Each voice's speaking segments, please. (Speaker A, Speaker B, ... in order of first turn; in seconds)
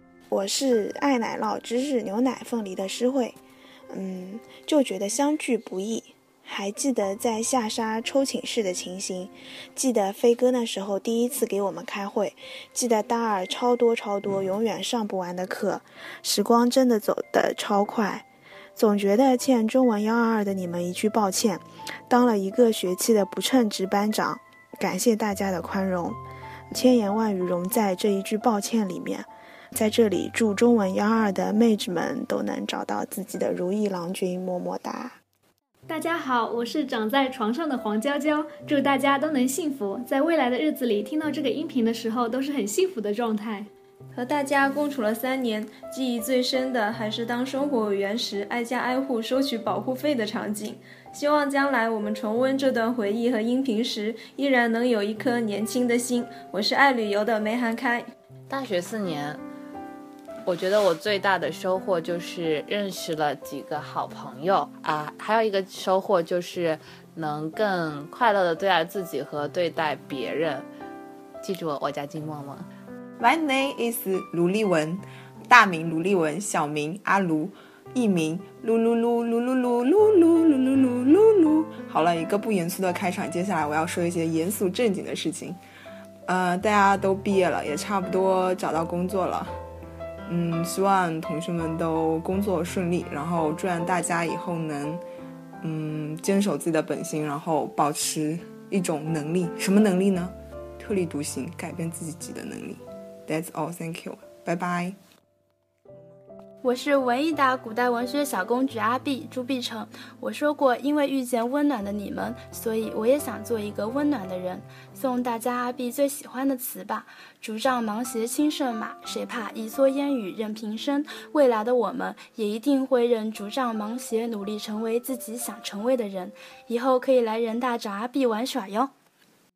Speaker A: 0.3-3.4, 3.9-26.2, 26.7-35.2
Speaker B: 35.9-43.7
Speaker C: 44.1-58.1
Speaker D: 58.5-59.4, 60.5-70.7, 71.4-72.7
Speaker E: 73.2-85.6, 86.3-89.5, 90.3-95.0, 95.6-105.0
Speaker F: 106.6-128.9